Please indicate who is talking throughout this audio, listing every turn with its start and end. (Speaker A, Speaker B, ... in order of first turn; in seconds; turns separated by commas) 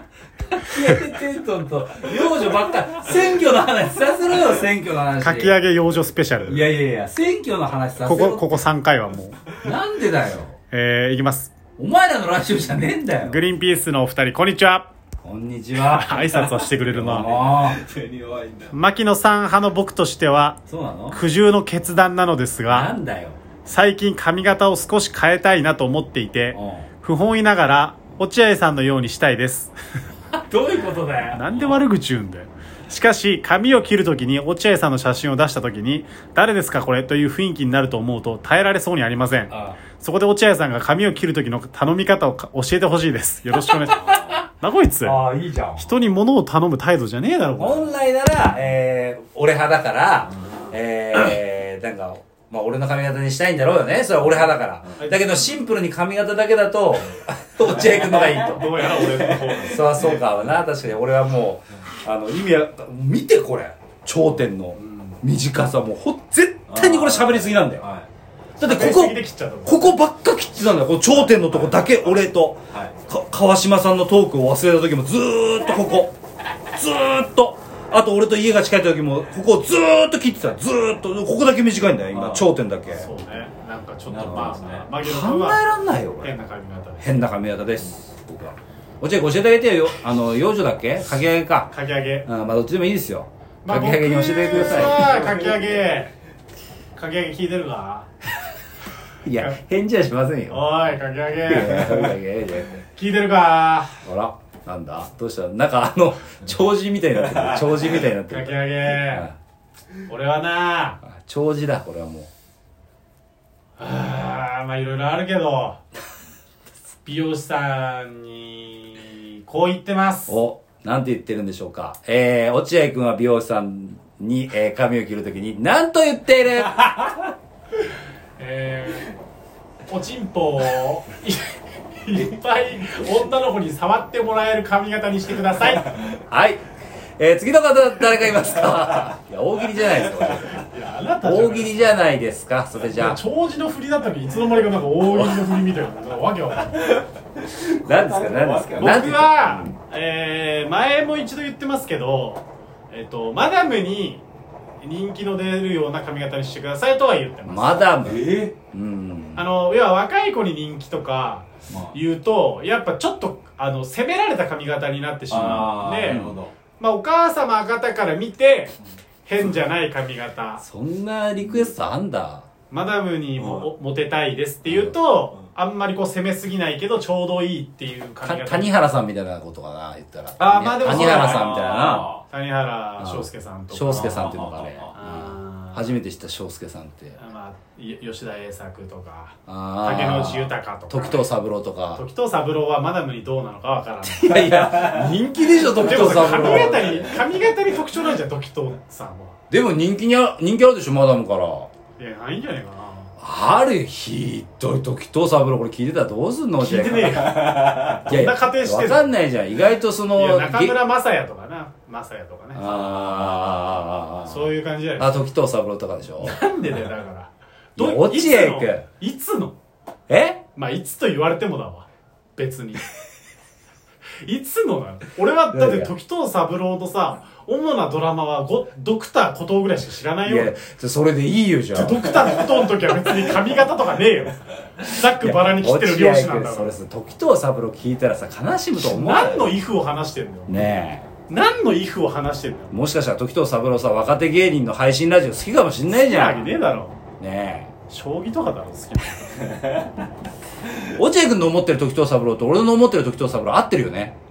Speaker A: 0.5-5.5, Speaker B: 5.2-6.6, Speaker A: 6.5-8.4, Speaker B: 8.0-9.4, Speaker A: 9.6-10.6, Speaker B: 10.7-11.5, Speaker A: 11.8-13.4, Speaker B: 13.2-14.9, Speaker A: 15.2-17.8, Speaker B: 15.8-17.3, Speaker C: 17.0-18.7, Speaker B: 18.7-20.6, Speaker A: 20.7-21.2, Speaker B: 21.1-22.9, Speaker A: 22.7-23.4, Speaker B: 23.6-29.7, Speaker A: 26.5-26.9, Speaker A: 30.3-31.7, Speaker B: 31.3-45.2, Speaker A: 39.5-39.8, Speaker A: 45.0-45.9, Speaker B: 45.8-47.9, Speaker A: 47.6-67.8, Speaker B: 55.0-55.5, Speaker C: 57.9-59.5, Speaker B: 58.3-60.2, Speaker B: 64.8-65.2, Speaker C: 66.7-68.1, Speaker A: 68.6-76.1, Speaker B: 68.6-69.9, Speaker C: 71.3-72.0, Speaker A: 76.7-83.1, Speaker C: 82.1-82.5, Speaker B: 82.9-85.6, Speaker C: 84.1-84.9, Speaker A: 84.2-86.3, Speaker B: 86.2-87.3, Speaker A: 87.0-91.7, Speaker B: 91.7-92.3, Speaker A: 92.3-95.2, Speaker B: 93.6-96.1, Speaker B: 97.0-98.1, Speaker A: 99.2-100.7, Speaker B: 100.5-102.2, Speaker A: 101.5-102.8, Speaker B: 102.9-104.0, Speaker A: 104.0-109.3, Speaker B: 108.3-109.3, Speaker B: 110.1-111.0, Speaker A: 111.0-112.3, Speaker B: 113.8-115.8, Speaker B: 117.0-120.4, Speaker A: 120.3-127.1, Speaker B: 128.4-129.1, Speaker B: 129.9-136.0, Speaker A: 136.3-136.6, Speaker A: 137.2-140.7, Speaker B: 140.7-141.9, Speaker A: 141.2-143.2, Speaker B: 142.9-146.9, Speaker A: 145.0-145.6, Speaker C: 146.8-149.2, Speaker A: 147.8-149.7, Speaker B: 148.7-154.2, Speaker B: 154.8-157.9, Speaker A: 157.5-159.4, Speaker C: 158.0-158.5, Speaker B: 159.3-166.2, Speaker C: 165.3-166.5, Speaker A: 165.3-166.4, Speaker B: 166.8-168.7, Speaker B: 169.2-170.6, Speaker A: 170.6-172.5, Speaker B: 172.7-178.7, Speaker C: 173.4-173.7, Speaker A: 174.6-174.9, Speaker A: 178.2-182.1, Speaker B: 180.4-184.3, Speaker C: 180.8-182.2, Speaker A: 183.0-187.2, Speaker C: 183.9-184.9, Speaker B: 184.9-185.9, Speaker B: 187.2-191.2, Speaker A: 189.5-192.0, Speaker B: 191.9-194.7, Speaker A: 194.0-197.2, Speaker B: 195.7-199.4, Speaker A: 199.5-201.7, Speaker B: 202.0-203.1, Speaker A: 203.2-210.8, Speaker B: 206.6-209.1, Speaker B: 210.1-213.7, Speaker A: 212.5-216.4, Speaker B: 214.2-215.2, Speaker B: 216.2-219.6, Speaker A: 217.8-218.8, Speaker A: 220.1-220.4, Speaker B: 220.5-222.8, Speaker B: 224.2-230.6, Speaker A: 225.5-225.9, Speaker A: 230.2-232.2, Speaker B: 231.7-236.8, Speaker A: 235.0-239.5, Speaker B: 238.8-240.6, Speaker A: 240.5-241.1, Speaker B: 241.3-242.7, Speaker A: 242.7-246.5, Speaker B: 245.9-246.9, Speaker A: 247.2-247.7, Speaker B: 247.9-249.7, Speaker A: 250.8-254.1